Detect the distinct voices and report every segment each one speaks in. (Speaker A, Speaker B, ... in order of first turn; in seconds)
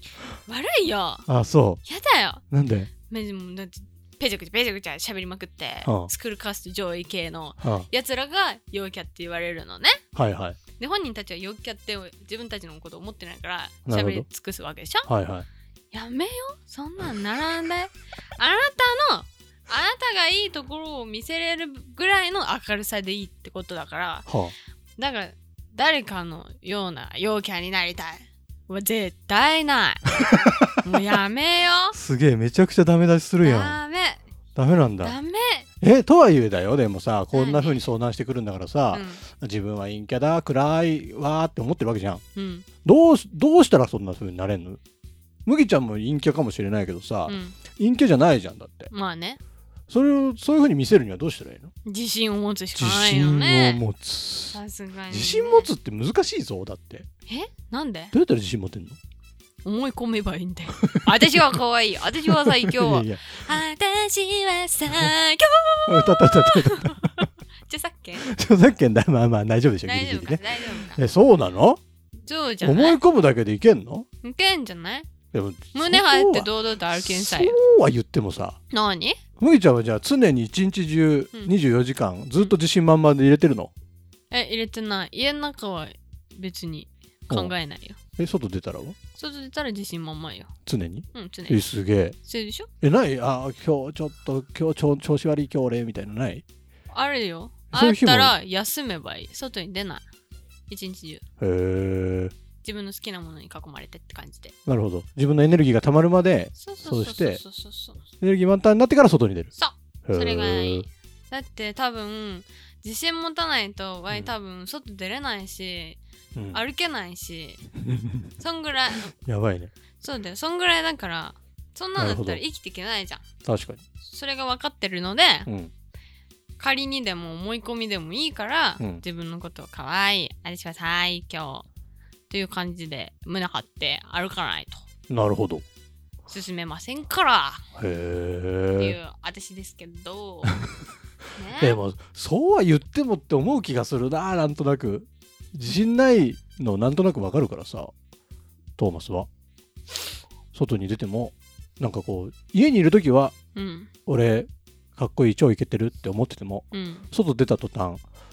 Speaker A: 0.5-1.2, 1.9-2.4, 3.0-10.0, 10.8-15.1, 15.9-24.2, 25.0-31.9, 33.4-34.2, 35.0-35.7, 37.3-37.8, 38.9-39.2, 42.3-42.7, 47.2-47.6, 48.9-49.4, 51.8-53.8, 54.5-55.7, 57.3-58.1, 59.6-68.3, 69.8-71.0, 72.2-73.0, 74.2-75.1, 75.7-77.5, 78.7-79.2, 84.3-88.0, 89.1-90.5, 91.1-91.7, 92.2-92.7, 96.9-100.0, 100.7-101.2, 102.6-104.5, 106.6-108.0, 109.6-116.0, 116.5-117.7, 118.4-119.1, 120.0-123.2, 124.0-125.5, 126.6-131.7, 132.3-134.8, 136.3-137.6, 138.7-140.7, 141.3-141.8, 153.5-153.9, 156.7-157.1
Speaker B: 1.3-1.8, 2.5-2.9, 5.8-6.1, 7.6-7.9, 10.1-10.6, 13.8-14.2, 15.1-15.5, 24.2-24.5, 31.9-33.8, 34.5-35.2, 35.8-42.2, 42.8-44.8, 45.4-48.9, 49.9-51.7, 52.7-57.1, 58.1-59.0, 60.8-61.1, 62.2-63.4, 65.9-67.2, 68.2-71.8, 72.6-74.1, 75.3-78.6, 79.4-83.7, 88.2-89.0, 90.7-92.2, 92.8-96.4, 97.7-98.3, 101.4-102.3, 104.7-107.4, 108.2-109.5, 110.0-110.9, 116.3-116.6, 117.8-118.3, 119.1-119.7, 122.0-122.4, 123.4-123.8, 125.5-125.7, 135.1-135.6, 137.8-139.0, 141.5-147.9, 148.8-149.3, 150.5-153.3, 154.1-158.0